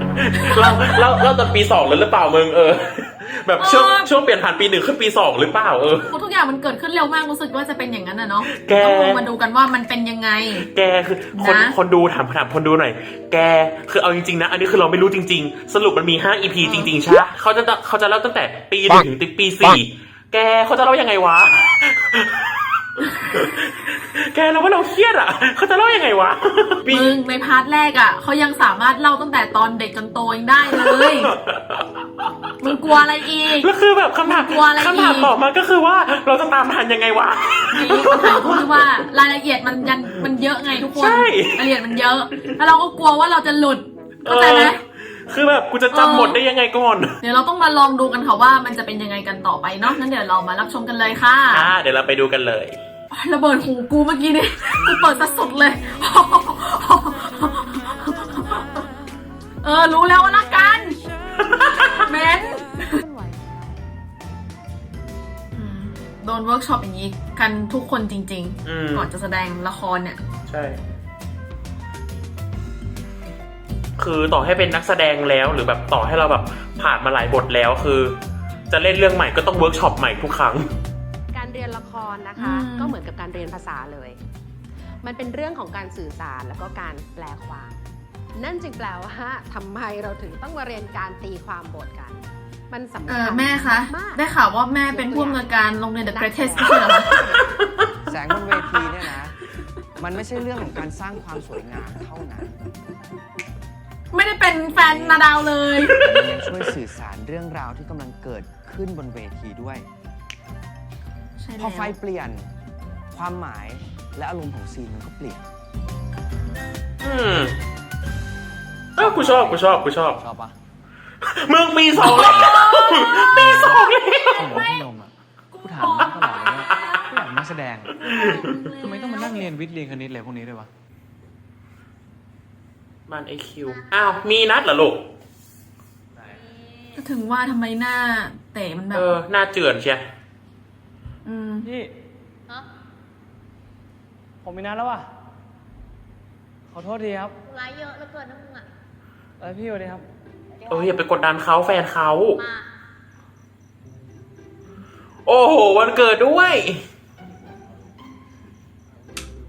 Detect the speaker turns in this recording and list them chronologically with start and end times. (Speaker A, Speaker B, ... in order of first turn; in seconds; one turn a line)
Speaker A: 0.1-6.1
Speaker B: 0.3-1.0
Speaker B: 3.6-4.1
Speaker B: 6.1-10.7
Speaker A: 8.5-9.2
Speaker A: 10.7-27.1
Speaker B: 11.3-11.7
Speaker B: 16.6-16.9
Speaker B: 26.9-31.3
Speaker A: 30.7-33.0
Speaker B: 32.6-33.7
Speaker A: 33.6-39.1
Speaker B: 34.3-35.3
Speaker B: 37.7-44.8
Speaker A: 40.0-42.5
Speaker A: 44.2-47.2
Speaker B: 45.9-46.4
Speaker B: 47.2-51.7
Speaker A: 51.5-52.8
Speaker B: 53.1-58.9
Speaker B: 59.6-61.0
Speaker A: 61.4-62.0
Speaker B: 61.7-63.0
Speaker C: 62.9-63.8
Speaker B: 65.5-70.2
Speaker A: 68.7-69.1
Speaker A: 70.5-70.8
Speaker A: 74.0-78.2
Speaker A: 78.7-80.7
Speaker D: 81.3-84.2
Speaker B: 82.4-83.0
Speaker D: 85.0-87.8
Speaker D: 88.3-94.2
Speaker B: 93.1-97.2
Speaker D: 94.9-97.4
Speaker E: 98.1-99.3
Speaker E: 100.0-102.6
Speaker B: 104.1-106.0
Speaker E: 104.8-105.2
Speaker A: 105.8-106.3
Speaker E: 105.9-109.9
Speaker B: 111.4-112.0
Speaker E: 111.6-112.5
Speaker E: 113.1-115.4
Speaker A: 117.0-117.6
Speaker A: 119.0-120.2
Speaker F: 119.0-120.5
Speaker A: 121.2-124.5
Speaker F: 122.0-122.6
Speaker B: 122.0-123.2
Speaker F: 123.2-128.0
Speaker B: 125.5-126.8
Speaker A: 128.0-128.6
Speaker B: 128.0-129.5
Speaker F: 128.7-130.7
Speaker A: 133.1-135.1
Speaker C: 133.6-134.0
Speaker C: 136.4-136.9
Speaker B: 137.0-139.1
Speaker A: 138.9-140.1
Speaker B: 141.2-141.7
Speaker F: 141.6-141.9
Speaker F: 144.4-145.1
Speaker F: 146.7-147.4
Speaker C: 147.5-148.7
Speaker F: 149.4-150.1
Speaker C: 150.5-151.0
Speaker A: 150.7-152.4
Speaker C: 152.4-152.7
Speaker A: 155.3-156.8